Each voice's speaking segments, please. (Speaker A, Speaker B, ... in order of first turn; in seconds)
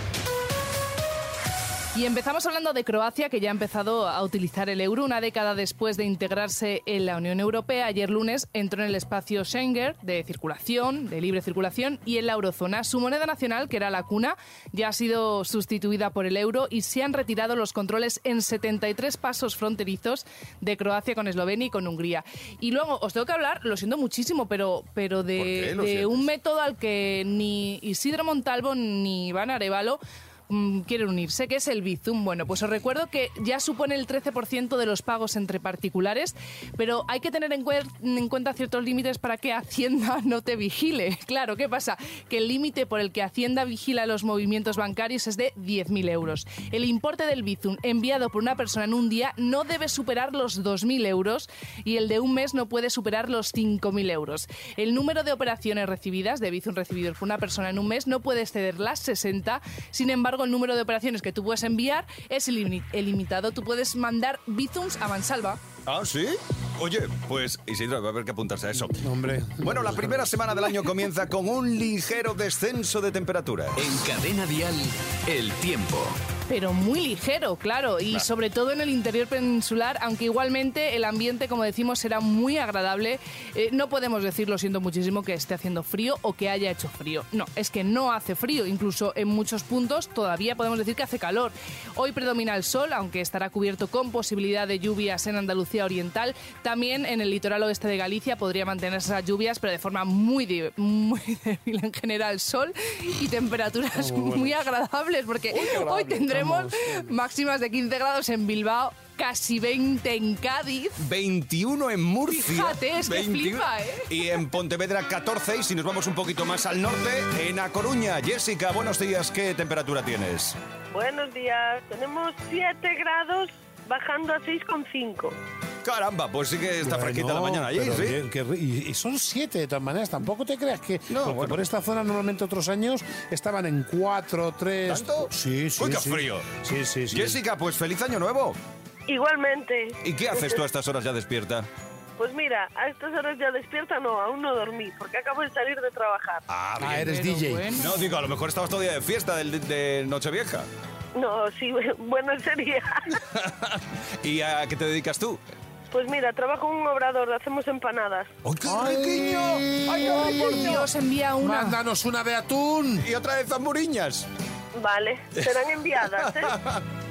Speaker A: 1.9-65.6, 76.5-111.0, 112.3-114.2, 147.0-147.9, 159.9-161.8
Speaker B: 25.4-26.3, 65.8-69.0, 69.6-73.8, 111.0-120.5, 125.8-128.2, 131.1-131.6, 134.9-136.6, 137.1-138.6, 140.0-141.7, 146.5-147.1, 147.8-150.7, 153.3-155.4, 158.4-160.8, 163.0-164.3, 165.4-166.8
Speaker C: 69.0-70.3, 104.0-104.6, 105.5-107.1, 126.8-137.4, 146.7-147.8, 158.6-160.9, 161.4-163.1
Speaker D: 73.8-76.2
Speaker E: 120.9-125.3, 139.1-140.6, 142.2-146.4, 151.1-153.0, 155.9-158.3, 164.8-166.5